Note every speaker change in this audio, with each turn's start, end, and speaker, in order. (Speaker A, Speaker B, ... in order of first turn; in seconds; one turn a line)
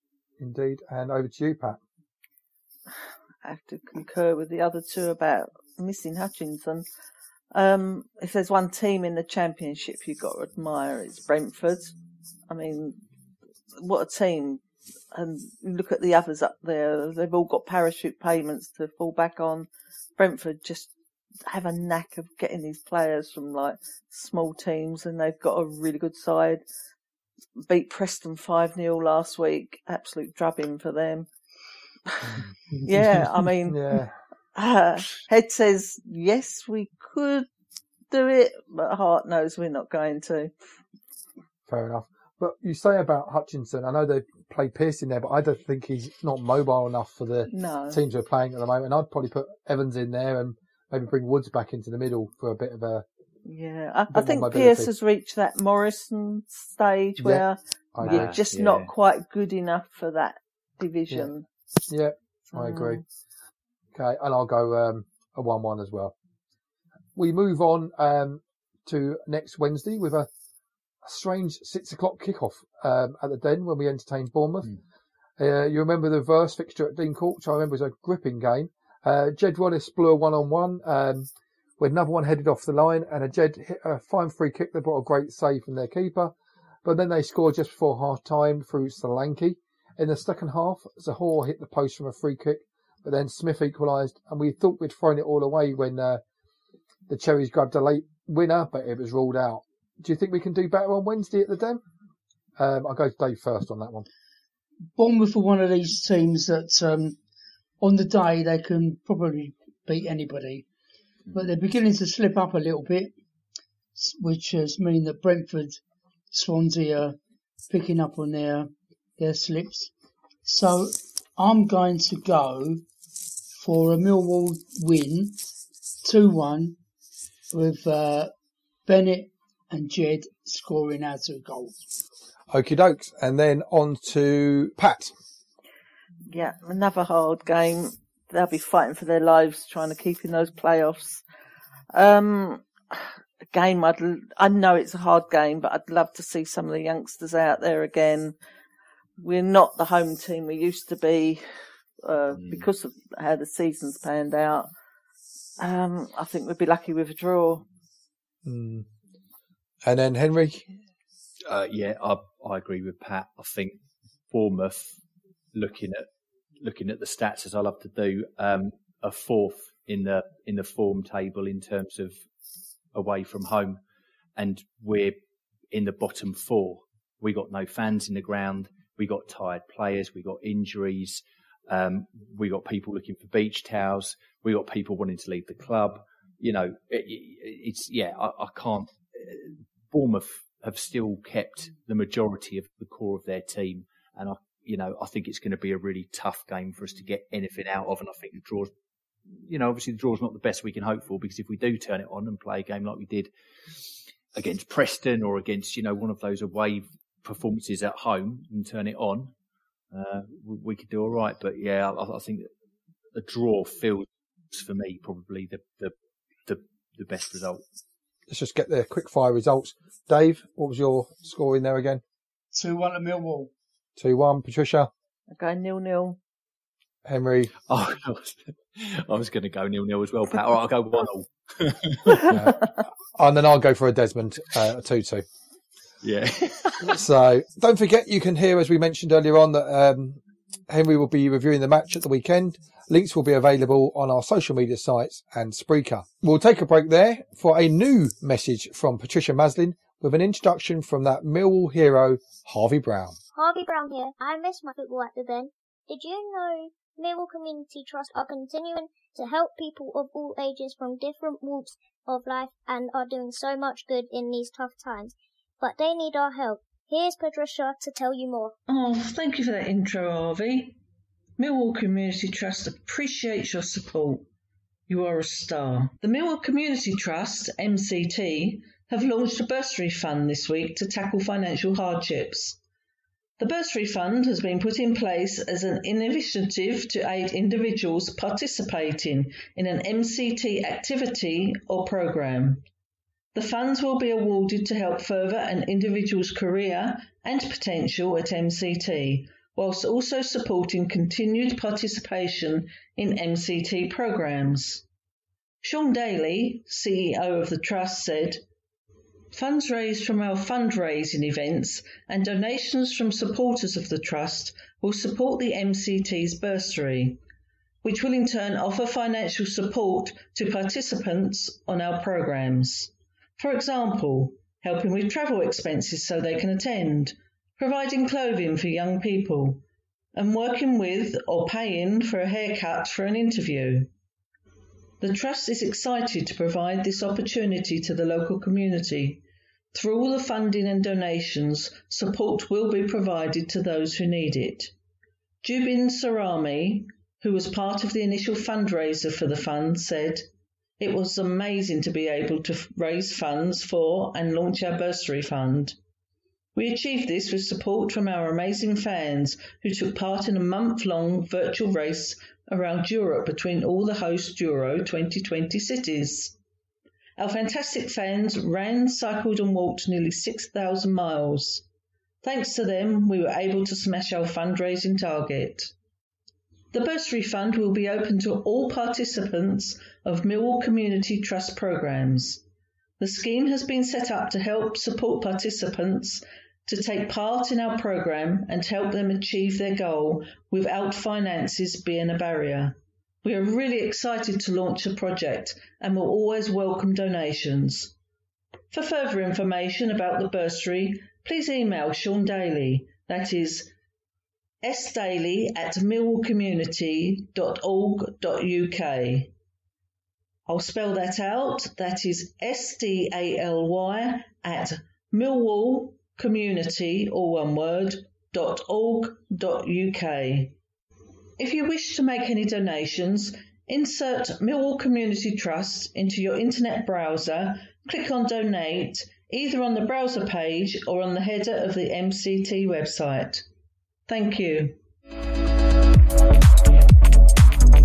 Speaker A: 0.4-1.8
Speaker B: 3.4-6.8
Speaker B: 7.5-11.9
Speaker B: 12.5-13.0
Speaker B: 13.8-14.6
Speaker B: 15.1-20.9
Speaker B: 21.5-26.6
Speaker B: 27.6-31.3
Speaker B: 32.1-33.8
Speaker A: 33.7-34.2
Speaker B: 34.5-37.5
Speaker B: 38.1-40.5
Speaker A: 41.7-53.0
Speaker B: 47.5-48.0
Speaker B: 53.5-61.5
Speaker A: 54.1-54.9
Speaker A: 57.2-58.7
Speaker A: 61.9-63.0
Speaker B: 62.5-63.0
Speaker A: 63.9-66.1
Speaker A: 67.2-70.3
Speaker A: 71.0-74.7
Speaker A: 75.4-86.3
Speaker A: 86.8-96.2
Speaker A: 97.1-101.8
Speaker A: 102.6-104.1
Speaker C: 105.0-107.2
Speaker C: 107.8-110.7
Speaker C: 111.3-113.1
Speaker C: 114.0-115.8
Speaker C: 116.3-117.2
Speaker C: 117.7-119.9
Speaker C: 120.4-122.8
Speaker C: 123.6-125.4
Speaker C: 126.0-126.8
Speaker C: 127.5-128.3
Speaker C: 128.9-131.7
Speaker A: 132.5-135.1
Speaker B: 136.3-141.2
Speaker B: 141.9-148.4
Speaker B: 149.2-151.4
Speaker B: 152.0-154.7
Speaker D: 152.3-152.7
Speaker B: 155.6-157.7
Speaker A: 158.4-158.9
Speaker A: 159.8-160.7
Speaker D: 161.5-165.0
Speaker D: 165.5-166.1
Speaker D: 166.6-172.2
Speaker D: 172.9-173.8
Speaker D: 174.4-175.2
Speaker D: 175.7-198.7
Speaker D: 199.3-203.3
Speaker D: 204.3-209.3
Speaker D: 209.9-212.5
Speaker D: 213.2-215.9
Speaker D: 216.5-217.6
Speaker A: 218.3-222.0
Speaker C: 222.5-223.5
Speaker A: 224.0-224.9
Speaker B: 225.3-226.2
Speaker A: 227.1-227.5
Speaker D: 227.7-232.2
Speaker A: 232.3-232.6
Speaker A: 233.2-235.2
Speaker D: 236.0-236.9
Speaker A: 236.9-253.2
Speaker E: 253.3-268.5
Speaker B: 268.7-270.8
Speaker B: 271.4-274.3
Speaker B: 274.9-282.6
Speaker B: 283.4-292.6
Speaker B: 293.4-304.8
Speaker B: 305.6-308.4
Speaker B: 309.3-317.2
Speaker B: 317.8-329.6
Speaker B: 330.1-333.9
Speaker B: 335.0-339.2
Speaker B: 339.7-344.7
Speaker B: 345.4-350.3
Speaker B: 350.8-355.8
Speaker B: 356.6-366.3
Speaker B: 367.2-371.6
Speaker B: 372.2-375.7
Speaker B: 376.7-382.4
Speaker B: 383.0-397.9
Speaker B: 398.7-403.7
Speaker B: 404.6-409.3
Speaker B: 410.5-420.6
Speaker B: 421.4-433.4
Speaker B: 434.1-434.8